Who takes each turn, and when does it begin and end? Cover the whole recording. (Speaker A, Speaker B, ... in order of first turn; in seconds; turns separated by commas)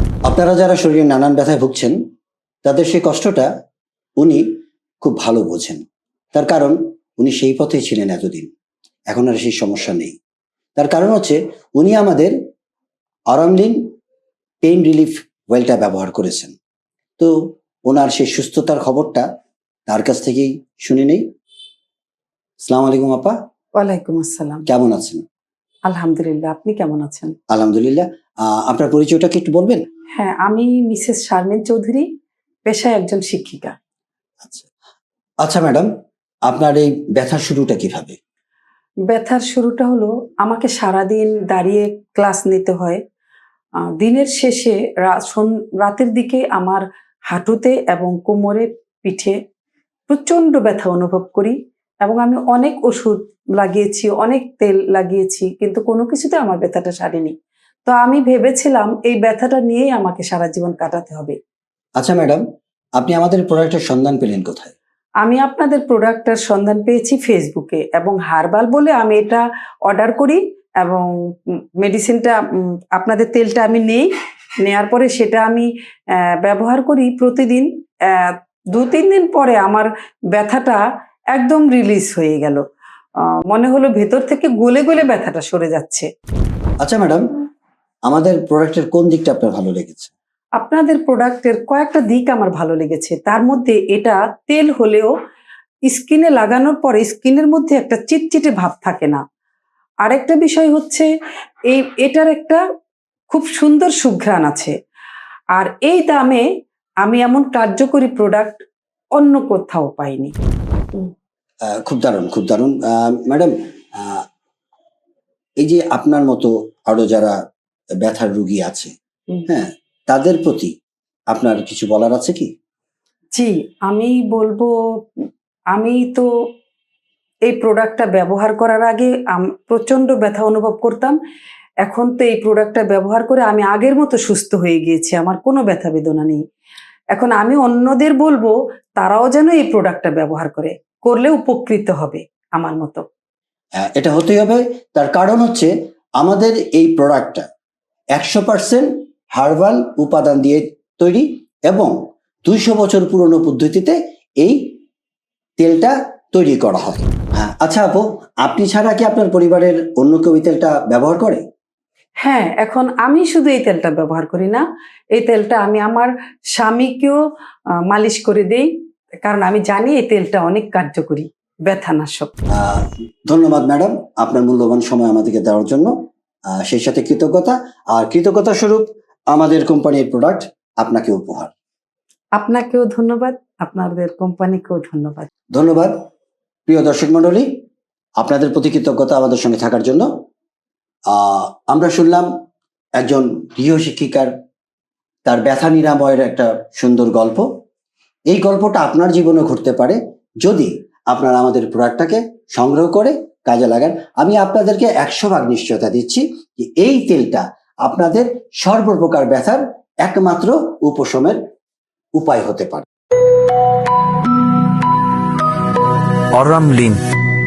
Speaker A: 0.3-2.0, Speaker A: 2.6-3.5, Speaker A: 4.2-4.5, Speaker A: 5.0-5.8, Speaker A: 6.3-8.5, Speaker A: 9.1-10.2, Speaker A: 10.8-12.3, Speaker A: 13.3-13.9, Speaker A: 14.6-16.6, Speaker A: 17.9-19.2, Speaker A: 19.9-21.2, Speaker A: 22.6-23.4, Speaker B: 23.8-24.6, Speaker A: 24.7-25.2, Speaker B: 25.9-27.3, Speaker A: 27.5-29.8, Speaker B: 30.1-32.1, Speaker B: 32.6-33.7, Speaker A: 35.4-35.9, Speaker A: 36.5-38.2, Speaker B: 39.1-43.0, Speaker B: 43.8-49.4, Speaker B: 50.1-57.3, Speaker B: 57.9-61.4, Speaker A: 62.0-62.4, Speaker A: 63.0-64.7, Speaker B: 65.2-74.1, Speaker B: 74.6-82.6, Speaker B: 83.5-86.1, Speaker A: 86.8-87.2, Speaker A: 88.1-90.1, Speaker B: 90.6-95.1, Speaker B: 95.9-99.2, Speaker B: 100.0-101.1, Speaker B: 101.7-102.6, Speaker B: 103.3-104.7, Speaker B: 105.5-106.5, Speaker B: 107.0-108.6, Speaker B: 109.1-110.3, Speaker A: 111.7-114.2, Speaker A: 115.6-117.3, Speaker A: 118.0-118.9, Speaker A: 119.5-120.7, Speaker A: 121.3-122.5, Speaker B: 123.3-126.3, Speaker B: 127.5-131.2, Speaker B: 131.8-136.4, Speaker B: 137.1-143.0, Speaker A: 143.8-147.4, Speaker A: 148.1-151.9, Speaker A: 152.4-154.6, Speaker A: 155.6-161.4, Speaker B: 162.2-167.2, Speaker B: 167.9-168.7, Speaker B: 169.2-172.3, Speaker A: 172.5-175.9, Speaker A: 176.5-181.5, Speaker B: 182.3-185.3, Speaker A: 185.5-185.9, Speaker A: 186.7-187.5, Speaker A: 188.2-190.1, Speaker A: 191.1-192.3, Speaker A: 193.0-194.3, Speaker A: 195.2-197.5, Speaker A: 198.3-211.4, Speaker A: 212.2-212.8, Speaker A: 216.3-217.0